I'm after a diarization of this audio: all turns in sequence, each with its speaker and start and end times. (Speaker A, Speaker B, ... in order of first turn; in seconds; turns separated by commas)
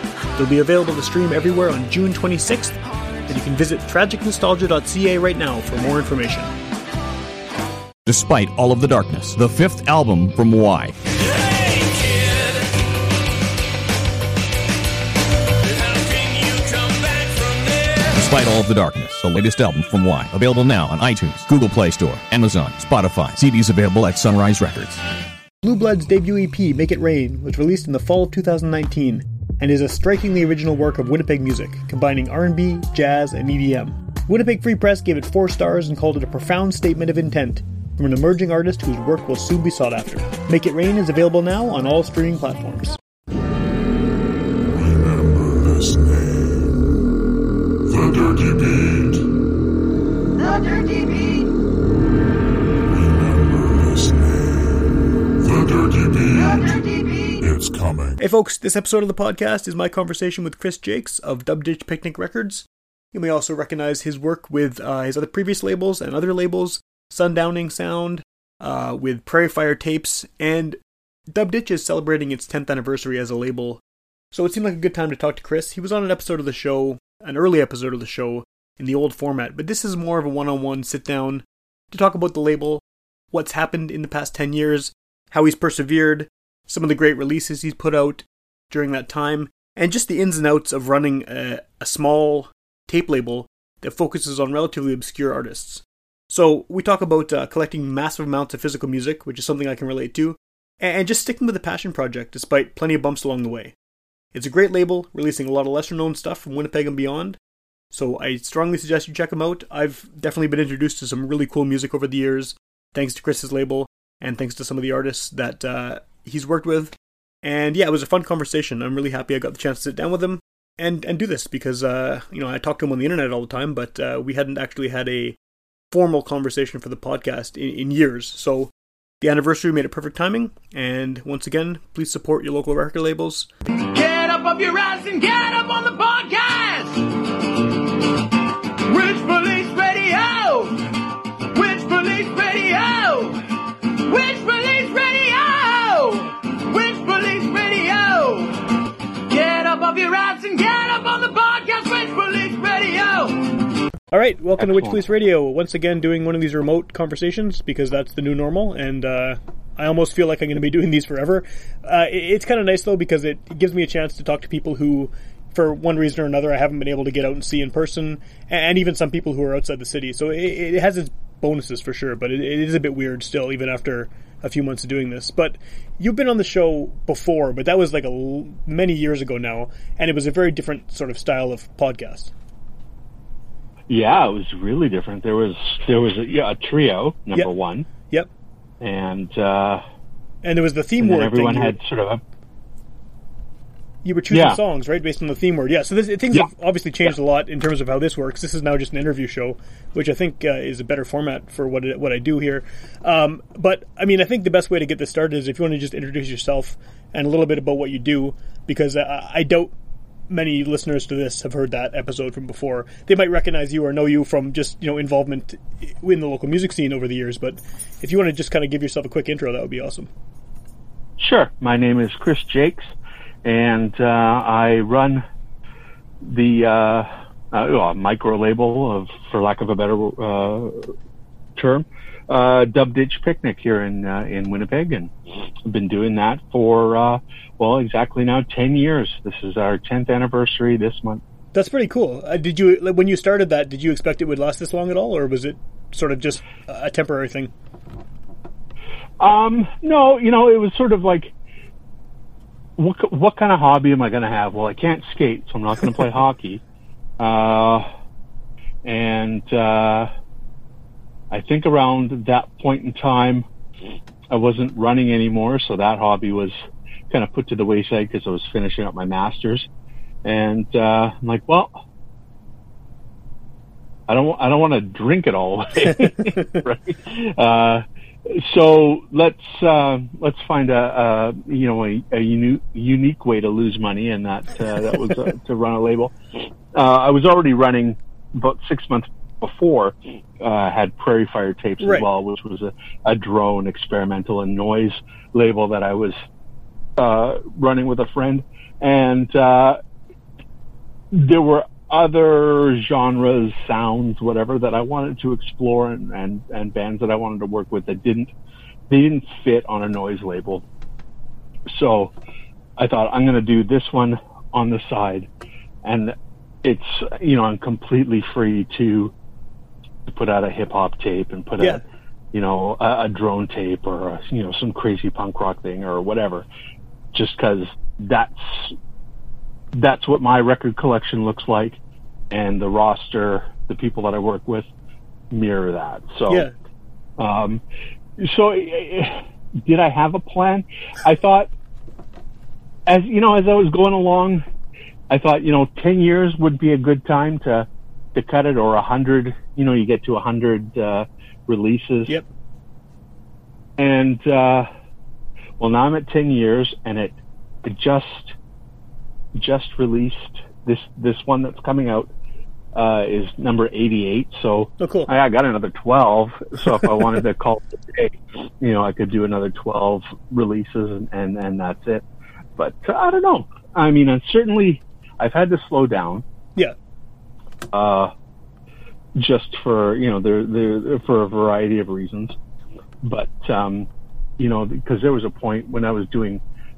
Speaker A: 0.3-6.5, Speaker B: 8.1-11.0, Speaker B: 18.1-25.0, Speaker A: 25.6-43.0, Speaker C: 44.7-46.9, Speaker C: 47.9-49.2, Speaker C: 52.9-56.8, Speaker C: 57.4-58.2, Speaker A: 58.2-70.8, Speaker A: 71.3-73.8, Speaker A: 74.3-103.7, Speaker A: 104.3-107.4, Speaker A: 107.9-125.4, Speaker A: 125.9-133.5, Speaker D: 133.9-137.2, Speaker D: 138.8-140.9, Speaker D: 141.5-143.5, Speaker D: 144.0-153.6, Speaker A: 154.1-182.3, Speaker E: 154.6-155.0, Speaker E: 183.9-187.9, Speaker A: 188.0-188.3, Speaker E: 188.8-189.8, Speaker A: 190.4-191.8, Speaker E: 191.0-192.2, Speaker A: 194.0-209.7, Speaker E: 194.3-194.6, Speaker A: 210.3-220.1, Speaker E: 221.2-222.9, Speaker E: 223.4-225.2, Speaker E: 226.2-230.9, Speaker E: 231.6-235.1, Speaker E: 235.7-241.2, Speaker A: 241.5-247.5, Speaker E: 249.2-251.3, Speaker E: 252.8-256.6, Speaker E: 257.2-257.9, Speaker E: 258.8-260.1, Speaker E: 261.3-263.5, Speaker E: 264.3-266.6, Speaker E: 267.1-269.7, Speaker E: 270.2-271.8, Speaker E: 274.1-296.2, Speaker A: 291.8-292.1, Speaker E: 297.0-299.8, Speaker E: 301.1-308.3, Speaker E: 308.9-310.6, Speaker E: 311.7-312.1, Speaker E: 312.8-315.3, Speaker E: 315.8-319.1, Speaker E: 320.1-326.5, Speaker E: 327.1-328.8, Speaker E: 329.7-331.8, Speaker E: 332.3-334.7, Speaker E: 335.3-336.5, Speaker A: 336.3-336.5, Speaker E: 337.2-337.6, Speaker E: 338.2-341.5, Speaker E: 342.9-344.4, Speaker E: 345.1-352.2, Speaker E: 353.8-354.7, Speaker E: 355.6-358.4, Speaker E: 359.3-362.1, Speaker E: 362.7-372.0, Speaker A: 364.8-365.1, Speaker E: 372.6-376.2, Speaker E: 377.7-378.1, Speaker E: 379.1-382.4, Speaker E: 383.0-386.4